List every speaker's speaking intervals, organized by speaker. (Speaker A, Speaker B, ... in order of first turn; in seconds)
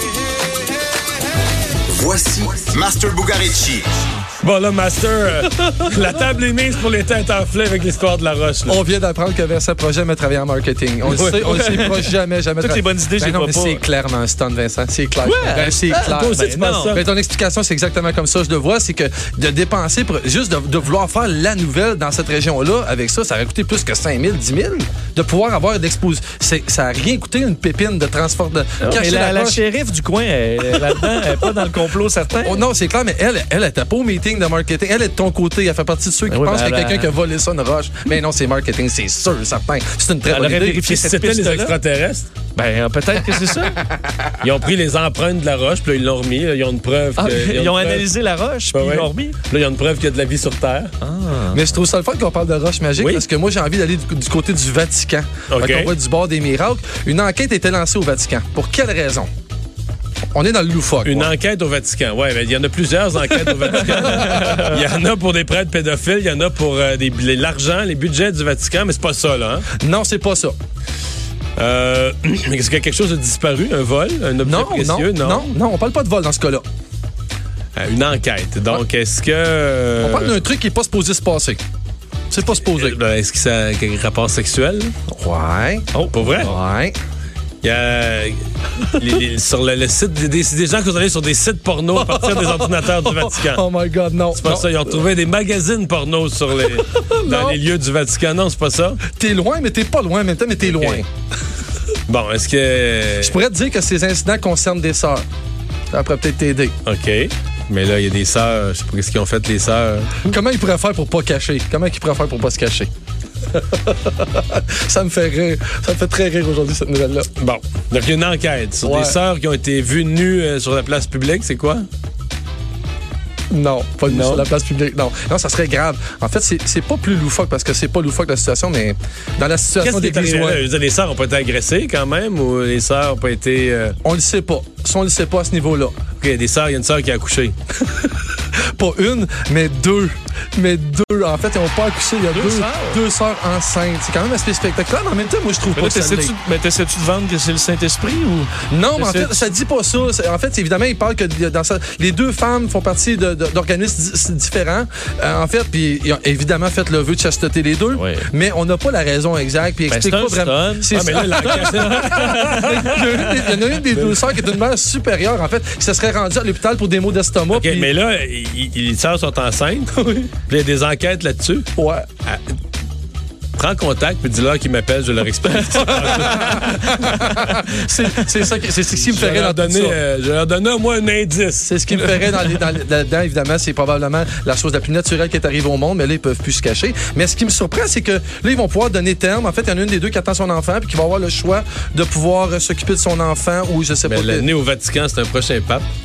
Speaker A: 1.9-3.9
Speaker B: 4.4-8.8, 16.1-17.0, 40.8-42.3, 44.4-48.1, 48.7-50.9, 53.0-53.2, 55.5-55.9, 61.0-69.7, 71.6-75.5, 77.8-80.4, 82.4-84.9, 86.1-86.5, 87.6-88.4, 88.9-93.6, 94.3-99.0, 100.6-101.0, 102.1-103.4, 106.8-110.2, 117.3-121.9, 124.1-124.5, 129.8-134.0, 136.2-137.6, 160.9-163.2, 163.9-164.2, 167.5-171.7, 172.2-172.5, 173.6-177.4, 179.0-182.0, 194.1-195.8
Speaker C: 8.7-29.6, 30.7-31.7, 32.4-40.9, 51.5-59.3, 60.3-61.3, 63.6-64.5, 69.8-70.5, 74.4-76.6, 80.0-81.6, 82.3-83.0, 85.1-87.0, 88.8-89.2, 92.0-94.9, 96.7-97.6, 99.1-101.0, 103.2-105.2, 105.9-106.7, 110.2-112.9, 113.5-117.3, 118.8-119.2, 123.5-130.6, 134.0-135.9, 137.9-138.1, 138.7-146.3, 148.7-167.9, 171.8-172.1, 175.7-180.0, 181.6-194.5
Speaker D: 11.1-13.8, 15.2-17.0, 28.8-32.6, 36.3-37.1, 40.3-41.8, 42.5-43.8, 47.2-49.4, 51.0-51.6, 64.3-64.5, 142.3-143.0, 145.7-149.5, 157.9-158.2, 159.9-163.7, 176.2-177.6